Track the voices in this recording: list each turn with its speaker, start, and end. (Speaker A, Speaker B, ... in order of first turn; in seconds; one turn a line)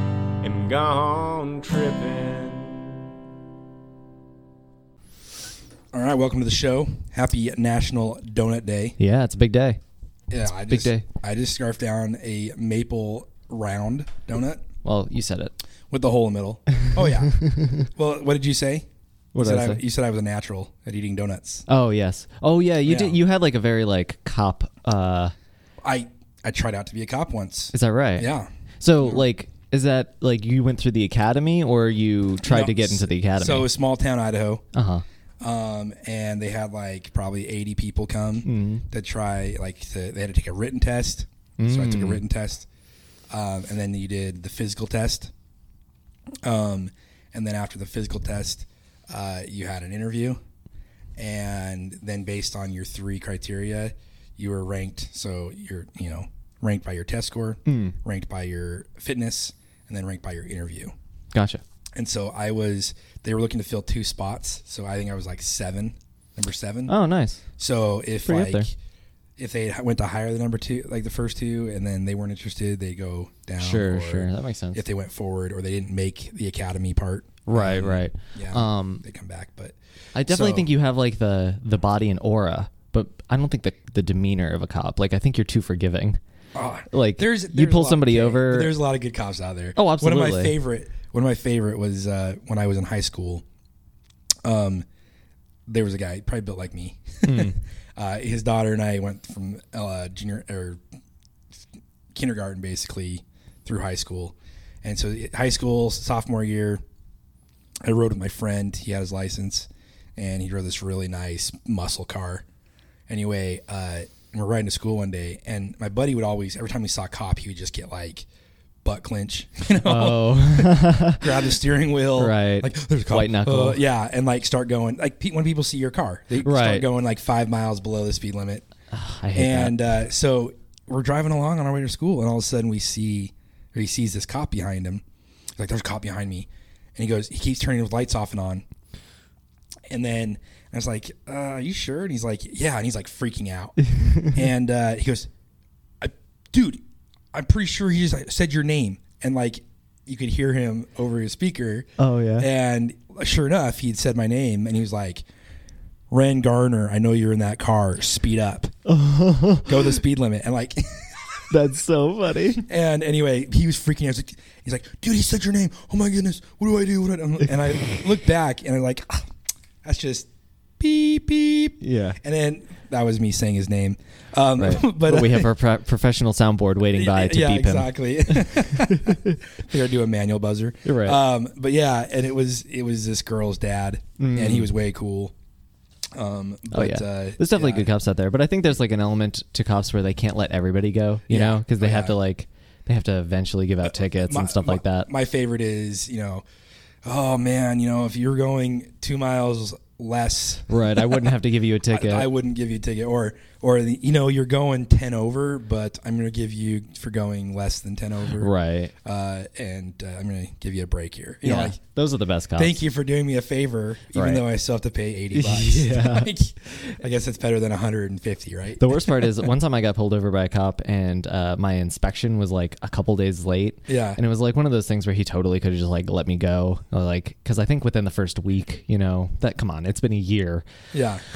Speaker A: 0.4-2.9
Speaker B: 5.9-9.0
Speaker C: 9.0-9.8
Speaker B: 10.3-14.6
Speaker C: 10.5-11.1
Speaker C: 14.8-15.5
Speaker B: 15.9-21.6
Speaker C: 16.8-17.9
Speaker C: 19.3-19.8
Speaker C: 21.7-25.3
Speaker B: 22.8-23.2
Speaker B: 25.8-29.3
Speaker C: 27.7-28.3
Speaker C: 28.8-33.7
Speaker B: 32.4-34.6
Speaker C: 34.7-35.0
Speaker B: 35.4-42.7
Speaker C: 38.5-38.8
Speaker C: 41.6-42.2
Speaker B: 43.3-45.3
Speaker B: 46.4-50.4
Speaker B: 51.2-60.9
Speaker C: 57.7-58.0
Speaker C: 61.3-61.6
Speaker B: 62.0-66.9
Speaker C: 66.9-67.4
Speaker B: 67.6-68.8
Speaker C: 68.2-68.7
Speaker B: 69.4-80.7
Speaker C: 73.6-74.8
Speaker C: 77.5-79.0
Speaker C: 80.2-86.2
Speaker B: 86.5-93.4
Speaker C: 86.9-88.8
Speaker C: 89.8-90.6
Speaker B: 94.4-94.9
Speaker B: 95.7-100.8
Speaker C: 97.2-97.6
Speaker B: 102.1-106.8
Speaker B: 107.8-112.4
Speaker B: 113.1-118.3
Speaker B: 118.8-128.7
Speaker C: 119.8-121.5
Speaker C: 122.2-123.8
Speaker C: 126.4-126.9
Speaker C: 128.9-129.8
Speaker B: 129.3-135.0
Speaker B: 135.6-138.6
Speaker B: 139.9-145.3
Speaker C: 143.9-144.4
Speaker B: 146.0-155.3
Speaker C: 152.0-152.5
Speaker B: 156.1-158.7
Speaker C: 158.9-160.0
Speaker B: 159.7-161.5
Speaker C: 161.5-162.7
Speaker B: 162.6-169.3
Speaker B: 169.8-170.3
Speaker B: 170.8-175.5
Speaker C: 171.8-172.2
Speaker C: 174.6-179.4
Speaker B: 177.0-185.3
Speaker C: 180.8-181.2
Speaker C: 184.2-184.7
Speaker B: 186.1-187.9
Speaker C: 186.7-195.1
Speaker B: 191.3-192.2
Speaker B: 193.8-196.4
Speaker B: 197.0-201.4
Speaker C: 200.7-202.3
Speaker B: 201.9-211.8
Speaker C: 208.4-208.9
Speaker C: 211.4-212.8
Speaker B: 212.6-219.5
Speaker C: 214.1-214.4
Speaker C: 215.3-216.3
Speaker C: 218.8-230.7
Speaker B: 223.9-224.2
Speaker B: 230.9-231.2